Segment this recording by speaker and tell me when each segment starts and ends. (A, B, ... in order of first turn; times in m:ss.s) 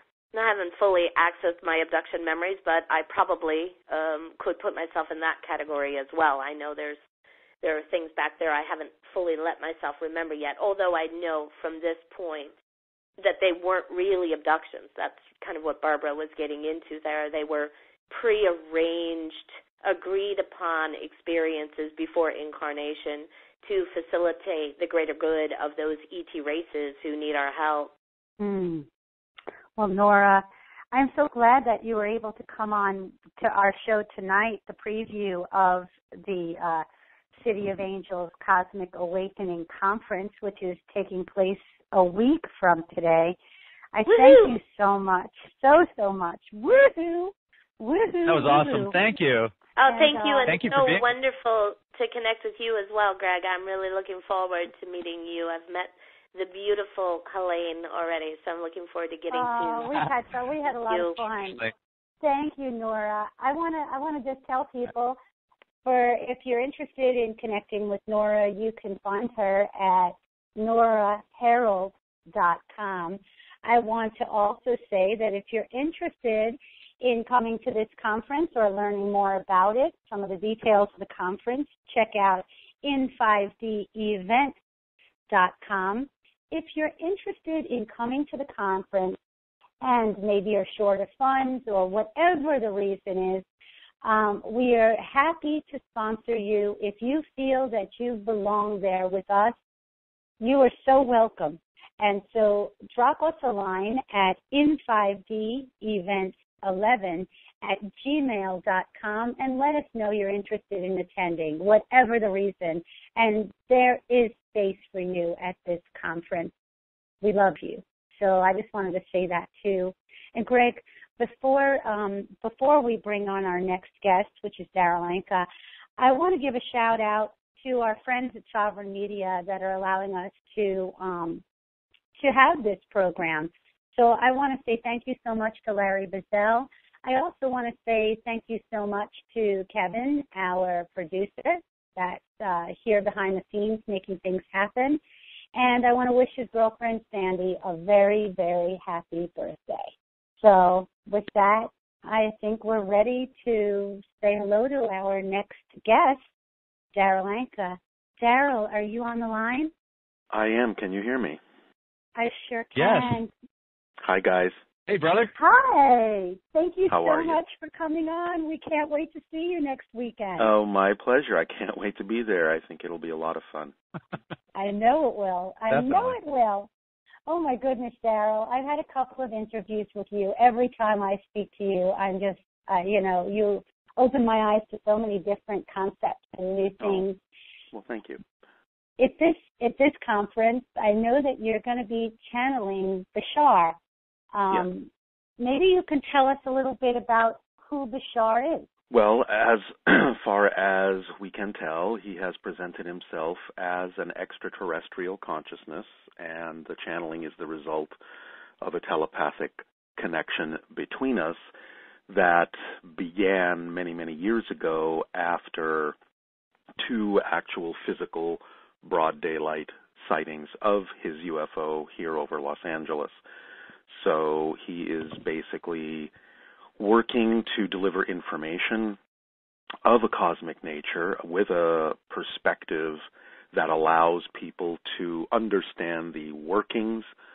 0:00.3-0:07.0 A
0:07.6-0:12.5 A
0:13.2-0:27.9 A
0:28.4-0:28.9 B
0:29.8-0:36.8 B
0:37.4-0:43.4 B
0:43.9-0:49.0 B
0:44.1-0:44.6 A
0:48.2-0:49.5 C
0:49.8-1:00.0 A
0:49.8-0:50.6 B
0:50.5-0:51.0 C
0:59.3-1:01.6 B
1:00.9-1:01.3 A
1:02.2-1:05.2 B
1:05.8-1:24.5 B
1:25.3-1:29.2 B
1:29.8-1:33.4 B
1:34.0-1:39.6 B
1:40.4-1:56.5 B
1:57.2-2:11.4 B
2:12.2-2:25.0 B
2:25.5-2:36.2 B
2:36.9-2:39.7 B
2:40.3-2:41.4 D
2:42.2-2:43.3 B
2:42.8-2:43.2 C
2:44.0-2:44.6 D
2:44.9-2:45.3 C
2:45.4-2:50.5 B
2:46.9-2:47.4 D
2:50.4-2:53.7 D
2:54.5-2:56.7 B
2:55.7-2:56.2 C
2:57.3-3:07.2 B
3:06.8-3:07.0 D
3:07.7-3:08.2 D
3:09.0-3:13.8 B
3:14.3-3:14.9 B
3:15.4-3:18.7 B
3:18.9-3:28.0 D
3:28.6-3:31.4 D
3:32.1-3:36.0 D
3:36.8-3:43.2 D
3:43.9-3:46.1 D
3:46.8-3:49.0 D
3:49.8-3:57.1 D